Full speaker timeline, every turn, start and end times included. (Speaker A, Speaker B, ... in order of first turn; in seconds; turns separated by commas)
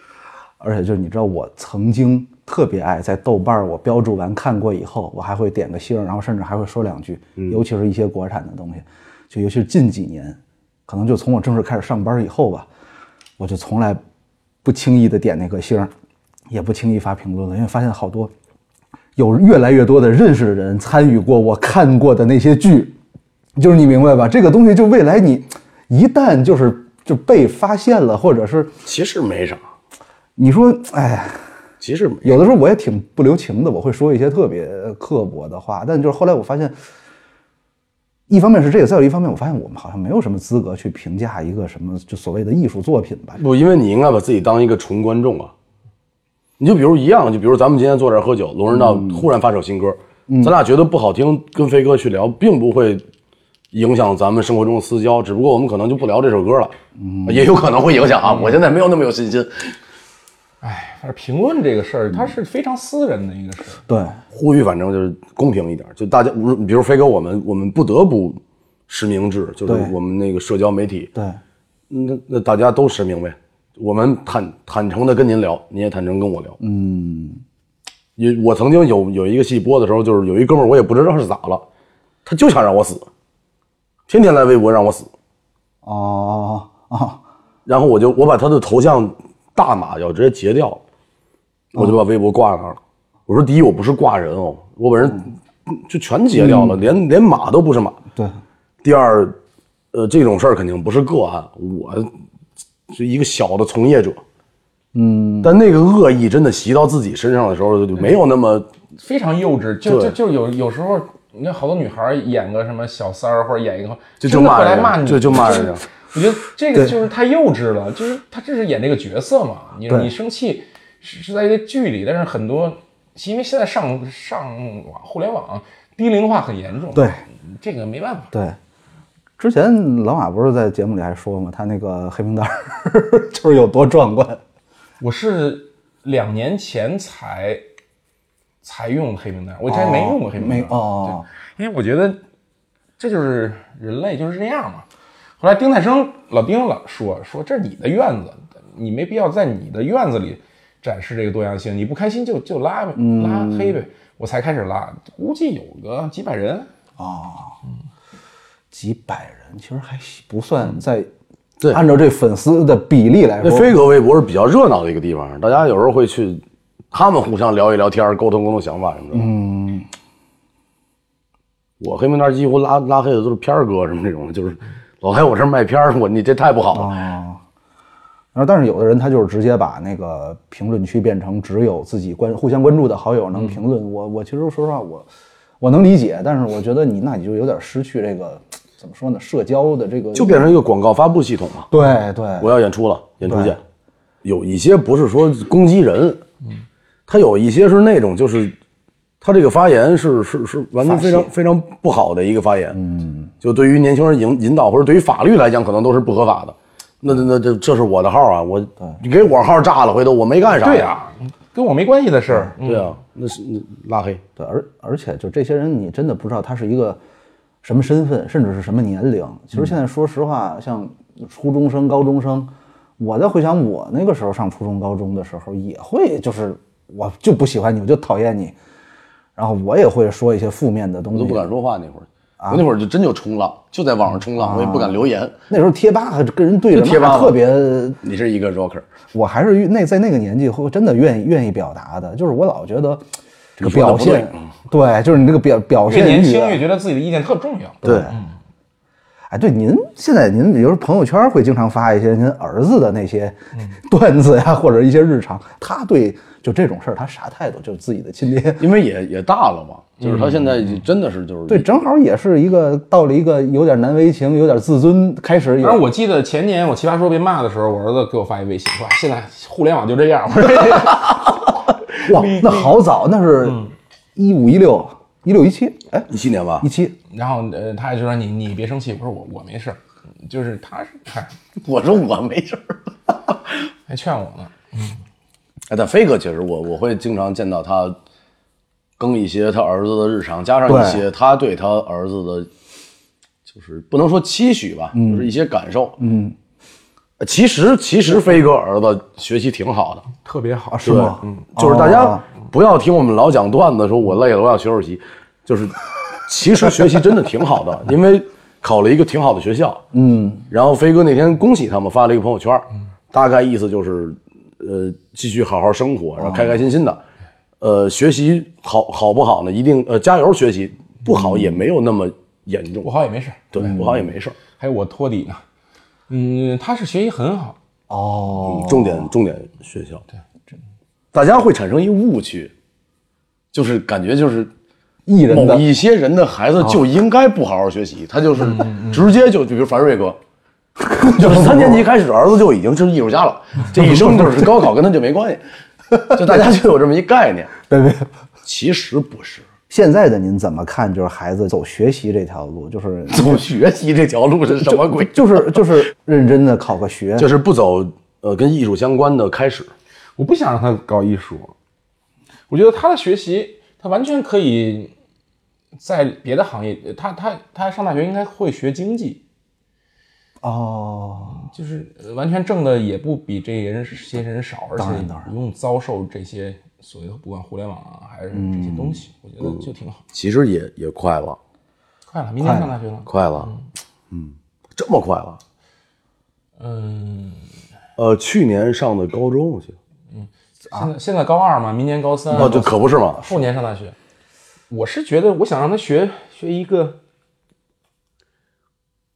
Speaker A: 0.6-12.7, Speaker A: 13.4-14.0, Speaker A: 14.6-15.9, Speaker A: 16.5-18.3, Speaker A: 19.2-23.0, Speaker A: 23.6-28.7, Speaker B: 28.9-29.6, Speaker A: 30.4-31.4, Speaker B: 31.8-32.5, Speaker A: 32.2-36.8, Speaker A: 38.3-43.4, Speaker B: 43.4-45.5, Speaker B: 46.6-53.0, Speaker A: 50.3-50.5, Speaker B: 53.7-56.8, Speaker A: 57.0-57.6, Speaker B: 57.3-59.8, Speaker C: 60.6-63.8, Speaker A: 63.9-64.2, Speaker B: 64.3-71.1, Speaker A: 69.7-69.9, Speaker B: 71.9-76.6, Speaker A: 76.6-77.4, Speaker B: 78.2-81.7, Speaker B: 82.3-83.1, Speaker B: 84.1-85.1, Speaker A: 85.8-87.2, Speaker B: 87.7-90.8, Speaker B: 91.7-98.0, Speaker A: 96.4-96.8, Speaker A: 98.2-98.4, Speaker B: 98.8-99.4, Speaker B: 99.9-102.1, Speaker B: 102.9-104.2, Speaker A: 104.9-105.6, Speaker B: 105.4-108.7, Speaker C: 109.0-128.3, Speaker B: 109.8-110.2, Speaker B: 114.2-115.8, Speaker A: 126.9-127.2, Speaker A: 128.3-128.6, Speaker A: 129.4-134.4, Speaker C: 135.0-137.6, Speaker C: 138.6-142.2, Speaker A: 139.7-141.3, Speaker C: 143.0-144.9, Speaker C: 145.4-156.7, Speaker A: 153.0-153.8, Speaker A: 157.0-157.6, Speaker A: 158.7-161.1, Speaker A: 161.7-163.8, Speaker B: 163.4-169.3, Speaker A: 169.1-169.9, Speaker B: 171.8-176.9, Speaker A: 176.7-177.4, Speaker A: 178.3-185.1, Speaker A: 185.6-190.6, Speaker B: 190.2-191.7, Speaker A: 191.7-192.5, Speaker B: 192.4-193.6, Speaker A: 193.3-193.6, Speaker B: 194.2-196.2, Speaker B: 197.1-198.5, Speaker B: 199.2-202.8, Speaker A: 200.8-201.3, Speaker A: 202.8-203.3, Speaker B: 203.4-210.9, Speaker C: 210.5-212.9, Speaker B: 212.6-214.2, Speaker A: 214.4-217.0, Speaker A: 217.6-228.6, Speaker A: 229.4-231.5, Speaker B: 231.1-235.3, Speaker A: 232.4-232.7, Speaker A: 234.4-238.0, Speaker B: 236.7-237.4, Speaker B: 238.0-238.9, Speaker A: 239.1-243.1, Speaker A: 243.6-246.6, Speaker B: 243.6-244.4, Speaker C: 245.9-248.3, Speaker A: 247.8-248.2, Speaker B: 247.8-248.1, Speaker A: 249.3-258.7, Speaker B: 258.6-261.7, Speaker C: 260.0-260.4, Speaker A: 261.5-265.9, Speaker C: 265.6-272.7, Speaker A: 272.0-273.6, Speaker A: 274.2-276.1, Speaker B: 276.1-276.7, Speaker A: 276.6-277.0, Speaker C: 277.1-281.4, Speaker B: 281.6-282.9, Speaker C: 283.9-284.9, Speaker B: 285.7-288.0, Speaker B: 289.0-292.5, Speaker A: 290.7-291.0, Speaker B: 293.5-296.0, Speaker A: 294.9-295.3, Speaker A: 296.0-296.4, Speaker B: 297.2-300.1, Speaker C: 300.2-301.3, Speaker A: 300.7-302.2, Speaker B: 300.8-309.8, Speaker A: 309.9-310.5, Speaker B: 310.5-317.0, Speaker A: 316.2-316.5, Speaker B: 317.6-322.9, Speaker C: 322.8-323.4, Speaker B: 323.5-324.4, Speaker A: 323.6-324.0, Speaker C: 324.6-325.4, Speaker C: 326.1-327.6, Speaker A: 327.9-329.1, Speaker B: 328.4-330.1, Speaker B: 331.1-332.5, Speaker B: 333.5-334.5, Speaker A: 335.1-335.6, Speaker B: 335.3-340.2, Speaker C: 338.6-338.9, Speaker A: 340.8-341.9, Speaker B: 341.1-345.4, Speaker A: 343.8-344.6, Speaker A: 345.9-346.4, Speaker B: 346.1-347.5, Speaker A: 347.7-348.1, Speaker B: 348.4-349.5, Speaker A: 349.7-353.5, Speaker B: 353.1-355.8, Speaker A: 354.6-357.3, Speaker B: 357.2-359.7, Speaker C: 360.2-361.5, Speaker C: 362.5-364.9, Speaker C: 365.8-369.2, Speaker A: 370.4-371.5, Speaker C: 371.3-380.0, Speaker A: 374.8-375.3, Speaker A: 378.3-379.0, Speaker B: 380.1-381.4, Speaker C: 382.1-383.6, Speaker A: 382.4-382.7, Speaker B: 383.1-383.5, Speaker B: 384.1-385.4, Speaker C: 386.6-387.4, Speaker B: 388.0-389.8, Speaker C: 390.1-394.0, Speaker B: 392.3-393.3, Speaker A: 392.4-392.7, Speaker C: 394.7-397.0